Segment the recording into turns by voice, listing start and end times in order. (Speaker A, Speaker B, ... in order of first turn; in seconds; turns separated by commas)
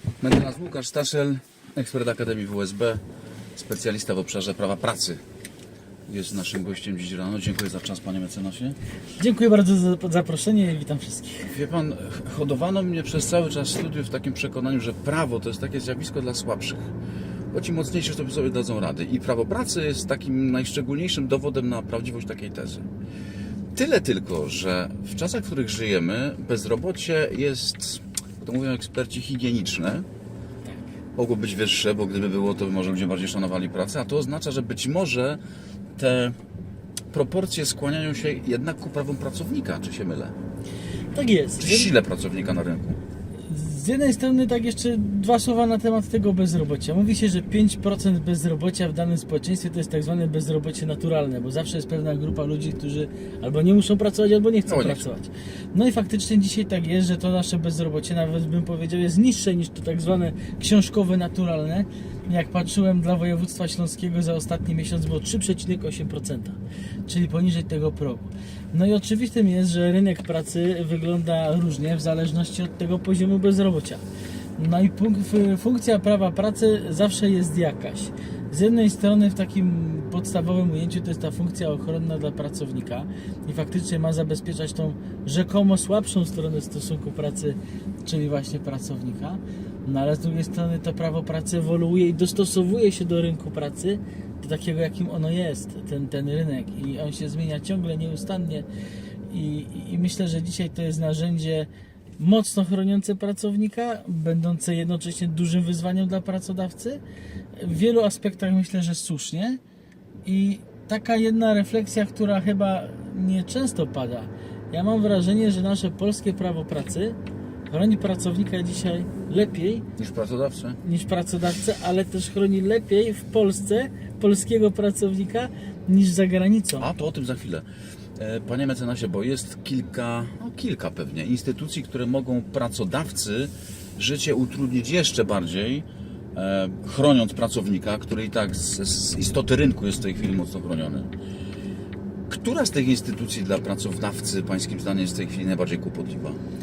Speaker A: 0.2-3.0, Speaker A: 3.6-5.2, Speaker A: 6.1-8.8, Speaker B: 9.2-11.6, Speaker A: 11.5-16.9, Speaker A: 17.5-22.9, Speaker A: 23.8-30.1, Speaker A: 31.2-35.4, Speaker A: 36.0-36.4, Speaker A: 37.1-40.3, Speaker B: 41.1-41.9, Speaker A: 41.6-43.0, Speaker B: 43.5-74.0, Speaker A: 54.7-55.1, Speaker B: 74.6-98.7, Speaker B: 99.3-107.0, Speaker B: 107.6-109.6, Speaker B: 110.2-117.2, Speaker B: 117.7-119.9, Speaker A: 120.0-120.8, Speaker B: 120.8-126.9, Speaker A: 126.8-127.7, Speaker A: 128.2-141.1, Speaker A: 142.3-146.4